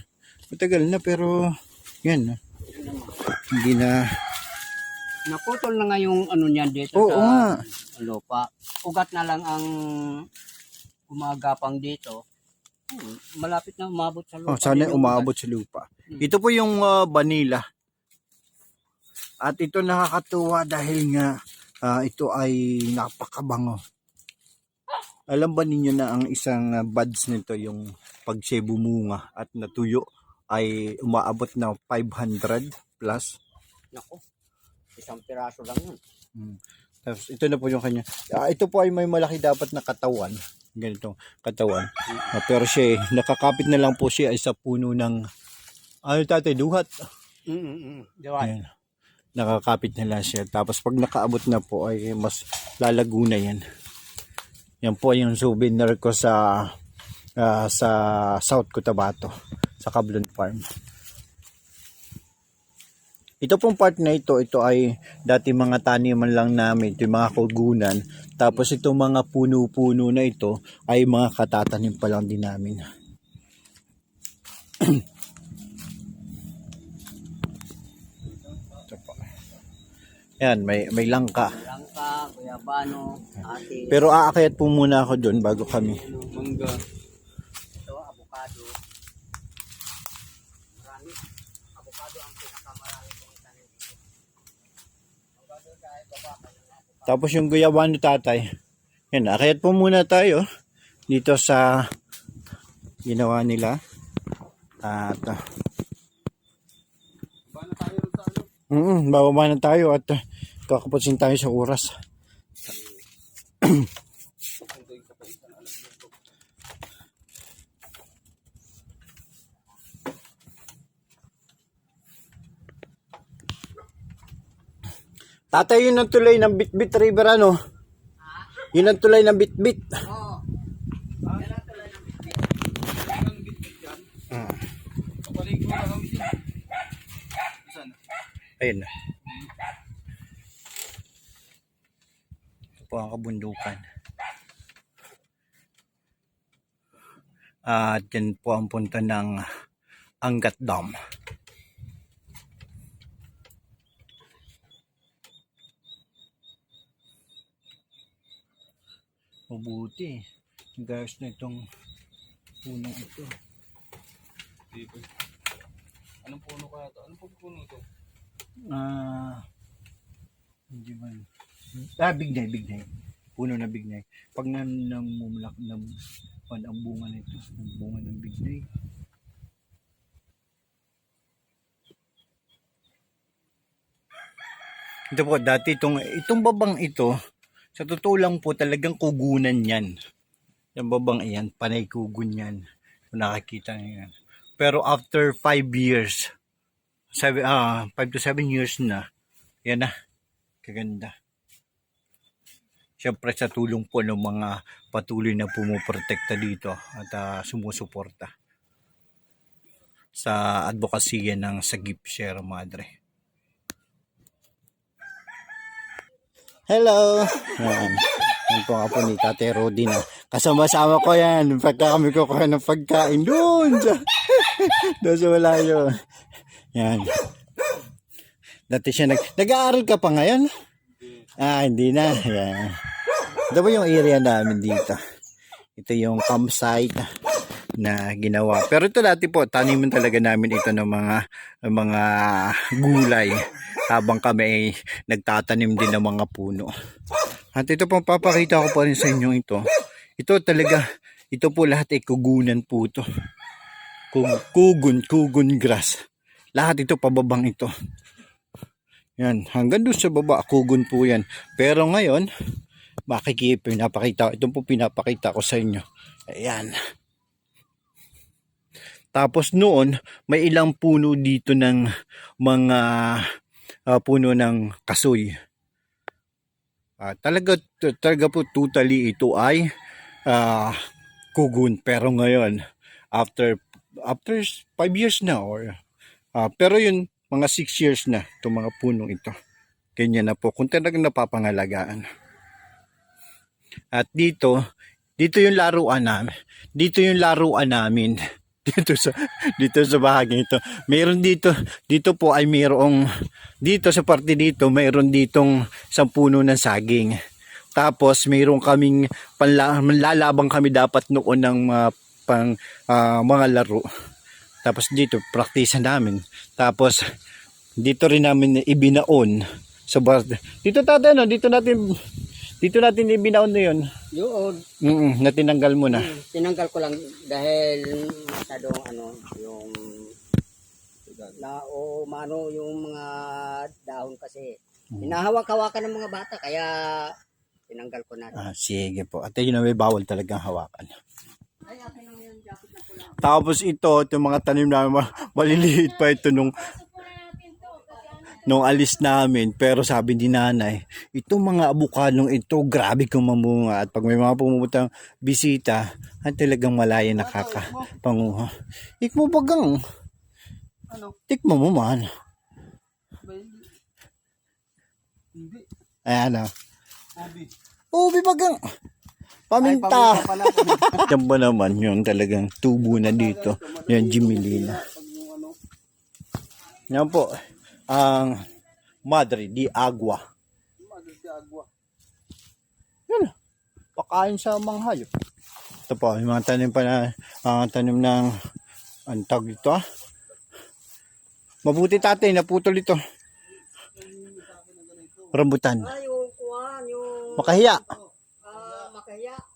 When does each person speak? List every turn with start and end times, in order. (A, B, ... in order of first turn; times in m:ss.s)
0:00.5-0:01.3 A
0:02.0-0:02.4 A
0:02.7-0:03.2 B
0:03.5-0:04.0 A
0:05.3-0:10.3 B
0:07.0-0:07.6 A
0:11.1-0:12.2 B
0:12.9-0:15.3 B
0:14.5-0:17.6 A
0:19.4-0:23.8 A
0:25.3-0:33.4 A
0:33.9-0:34.2 B
0:35.0-0:36.0 B
0:36.4-0:45.2 A
0:46.1-0:46.9 A
0:47.5-0:48.5 B
0:48.4-0:48.7 A
0:49.4-0:53.6 A
0:54.8-0:56.4 A
0:57.4-0:59.3 A
0:59.8-1:00.6 A
1:03.4-1:12.8 A
1:18.8-1:19.2 A
1:20.4-1:21.6 A
1:21.5-1:24.0 B
1:23.9-1:26.1 A
1:26.0-1:26.8 C
1:27.8-1:28.7 B
1:30.8-1:31.2 B
1:31.8-1:34.0 B
1:35.4-1:37.4 B
1:37.1-1:38.4 A
1:39.1-1:40.4 A
1:41.1-1:41.7 A
1:43.1-1:43.8 A
1:44.8-1:45.4 A
1:47.5-1:48.5 C
1:48.7-1:51.9 A
1:52.6-1:52.9 C
1:53.6-1:53.9 A
1:54.6-1:56.2 C
2:05.5-2:07.6 A
2:08.3-2:08.6 B
2:08.7-2:09.8 A
2:10.0-2:10.4 B
2:11.3-2:12.5 B
2:13.0-2:14.1 C
2:14.3-2:14.6 A
2:15.2-2:16.4 C
2:17.6-2:18.0 C
2:18.6-2:18.9 A
2:22.8-2:23.8 A
2:27.7-2:29.4 A
2:30.2-2:31.0 A
2:39.5-2:40.2 A
2:40.8-2:41.6 A
2:42.6-2:43.3 A
2:44.7-2:45.1 C
2:46.2-2:47.8 C
2:48.7-2:49.4 A
2:50.7-2:55.9 A
2:56.5-2:58.6 A
3:05.1-3:07.1 A
3:07.8-3:09.9 A
3:10.8-3:16.3 A
3:17.2-3:19.0 A
3:20.6-3:21.1 A
3:23.0-3:28.3 A
3:30.2-3:32.9 A
3:36.7-3:45.9 A
3:46.8-3:47.1 A
3:48.7-3:50.5 A
3:51.4-3:52.8 A
3:53.5-3:55.0 A
3:55.8-3:57.1 A
3:57.8-4:03.4 A
4:03.9-4:06.7 A
4:07.6-4:09.6 A
4:10.2-4:13.1 A
4:14.1-4:16.0 A
4:16.6-4:17.7 A
4:19.2-4:22.3 A
4:23.1-4:26.7 A
4:29.2-4:31.8 A
4:32.4-4:33.2 A
4:33.9-4:35.3 A
4:37.0-4:39.7 A
4:40.3-4:40.8 A
4:41.4-4:42.6 A
4:43.1-4:45.8 A
4:46.4-4:49.3 A
4:50.0-4:52.1 A
4:53.9-4:54.6 A
4:55.2-5:03.0 A
5:03.6-5:07.2 A
5:07.8-5:13.8 A
5:14.6-5:17.0 A
5:17.8-5:21.8 A
5:22.6-5:23.8 A
5:24.1-5:24.6 B
5:24.8-5:26.1 A
5:25.9-5:30.1 B
5:31.1-5:31.3 C
5:31.3-5:37.1 B
5:37.7-5:38.4 B
5:38.3-5:40.9 A
5:41.6-5:43.3 B
5:43.1-5:46.8 A
5:47.2-5:48.3 B
5:48.3-5:58.5 A
5:57.2-5:57.9 C
5:59.0-5:59.8 A
6:00.9-6:01.2 C
6:01.3-6:02.1 A
6:03.2-6:03.7 C
6:05.3-6:05.7 C
6:06.1-6:06.5 A
6:07.2-6:07.5 C
6:07.9-6:08.6 A
6:09.5-6:14.8 A
6:09.6-6:11.1 B
6:12.9-6:15.6 C
6:16.9-6:17.3 A
6:17.9-6:18.4 A
6:19.1-6:20.2 A
6:20.8-6:21.7 C
6:24.0-6:25.1 A
6:25.9-6:28.3 A
6:29.1-6:29.8 A
6:31.6-6:33.0 A
6:33.9-6:35.4 C
6:35.3-6:35.9 A
6:35.8-6:37.8 B
6:37.3-6:37.8 A
6:38.4-6:39.4 B
6:38.5-6:38.9 C